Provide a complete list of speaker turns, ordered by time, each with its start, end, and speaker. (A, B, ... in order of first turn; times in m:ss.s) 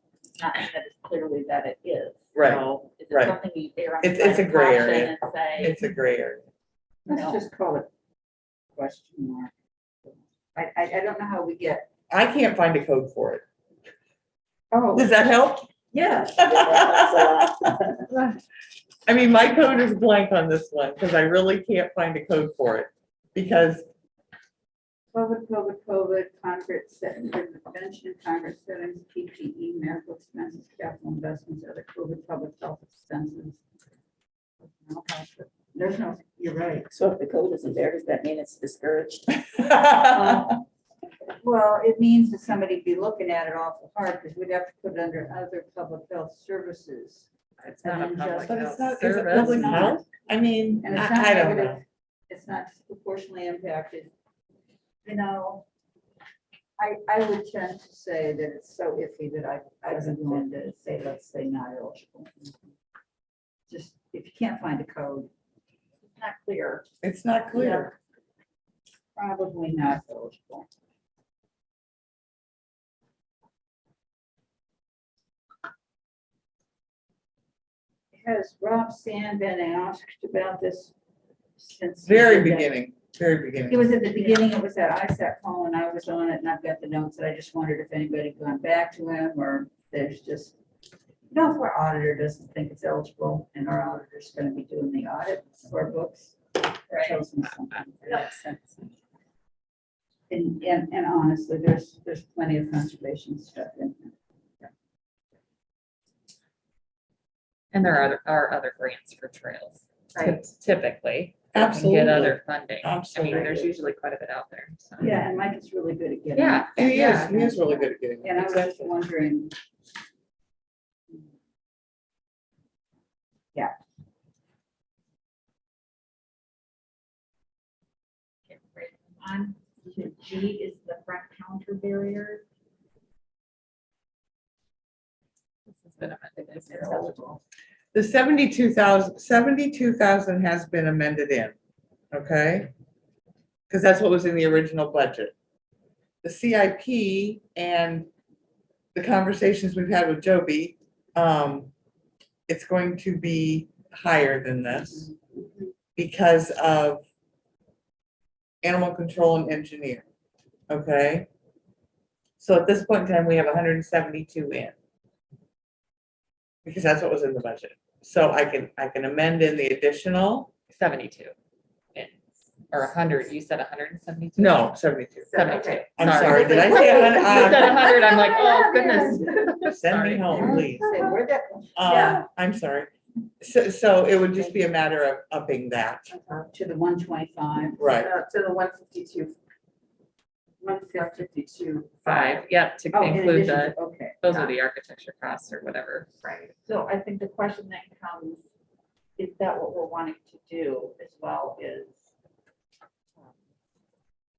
0:00.4-0:05.8 A
0:02.3-0:03.4 B
0:04.0-0:06.5 B
0:07.1-0:07.4 A
0:07.1-0:07.9 C
0:08.7-0:09.5 C
0:10.0-0:11.9 C
0:12.1-0:13.4 B
0:14.7-0:15.0 C
0:14.9-0:15.7 B
0:16.0-0:17.5 D
0:16.3-0:18.4 B
0:19.0-0:23.8 B
0:25.1-0:33.6 C
0:34.8-0:36.9 C
0:36.9-0:39.7 D
0:39.5-0:40.1 B
0:40.1-0:40.6 C
0:41.4-0:47.3 C
0:47.6-0:50.0 E
0:47.8-0:50.0 C
0:48.4-0:51.8 B
0:50.8-0:54.1 C
0:55.0-0:55.6 C
0:56.8-1:02.3 C
1:03.7-1:05.3 C
1:06.0-1:06.8 A
1:07.0-1:07.9 B
1:07.5-1:07.9 C
1:09.2-1:10.7 C
1:18.1-1:20.9 C
1:21.6-1:22.8 C
1:22.0-1:23.9 B
1:23.7-1:30.6 C
1:31.3-1:36.4 C
1:36.9-1:37.2 A
1:36.9-1:38.9 C
1:38.0-1:38.3 A
1:40.3-1:44.1 C
1:47.7-1:55.1 E
1:51.5-1:53.7 B
1:53.3-1:53.6 C
1:55.0-1:59.5 C
1:56.3-1:57.3 E
1:56.8-1:58.9 B
2:08.5-2:12.4 A
2:15.7-2:17.2 E
2:16.7-2:17.4 A
2:17.9-2:21.5 B
2:22.1-2:22.7 B
2:23.7-2:25.3 B
2:26.2-2:28.1 B
2:28.9-2:31.7 B
2:32.5-2:35.1 B
2:36.0-2:37.0 B
2:38.6-2:40.0 B
2:40.7-2:41.3 B
2:42.4-2:44.7 B
2:46.6-2:50.5 B
2:50.7-2:51.3 E
2:51.9-2:54.7 E
2:54.4-2:55.4 B
2:55.3-3:00.4 E
2:55.5-2:55.9 D
2:56.0-2:57.9 B
2:56.0-2:59.2 C
2:58.1-2:59.2 A
2:59.4-3:00.9 B
3:00.3-3:02.0 C
3:01.7-3:06.1 B
3:01.9-3:02.2 D
3:06.1-3:06.5 D
3:06.5-3:08.0 C
3:07.8-3:08.1 B
3:07.9-3:09.4 D
3:10.6-3:11.5 C
3:10.9-3:12.0 D
3:12.0-3:16.1 E
3:12.1-3:12.4 A
3:12.9-3:14.3 C
3:16.5-3:18.4 A
3:19.2-3:22.1 A